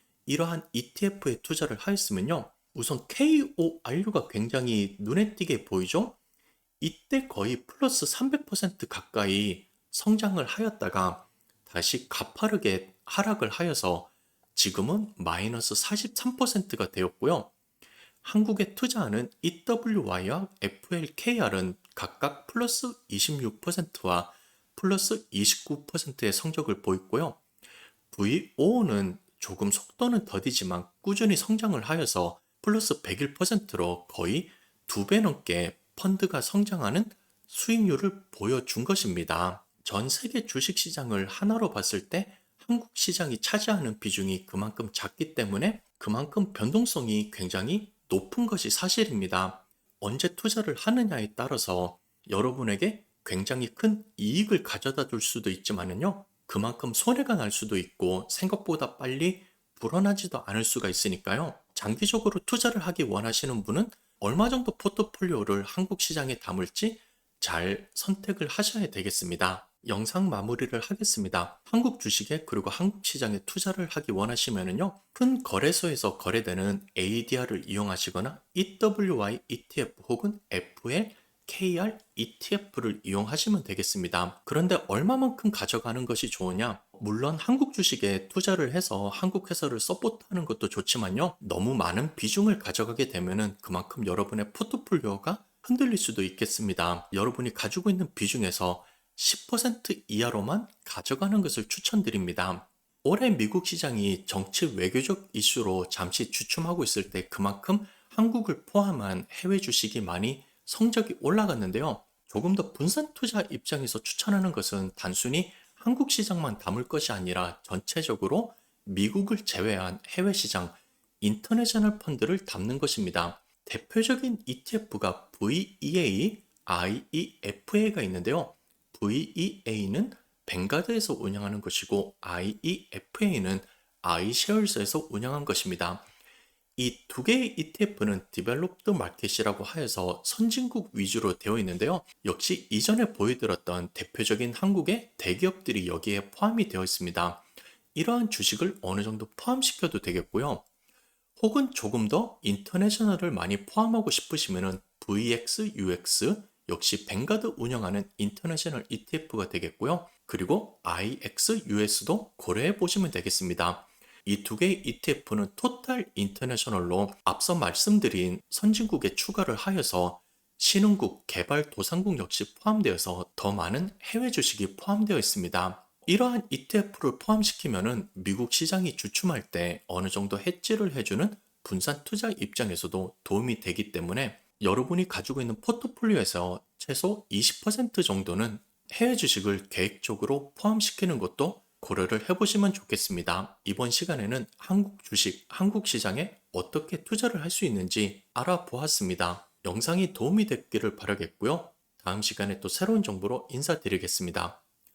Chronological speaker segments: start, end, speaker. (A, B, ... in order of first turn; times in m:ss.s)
0:00.3-0:06.2 A
0:06.8-0:17.5 A
0:18.2-0:27.4 A
0:28.1-2:16.1 A
2:16.8-2:30.7 A
2:31.4-3:24.6 A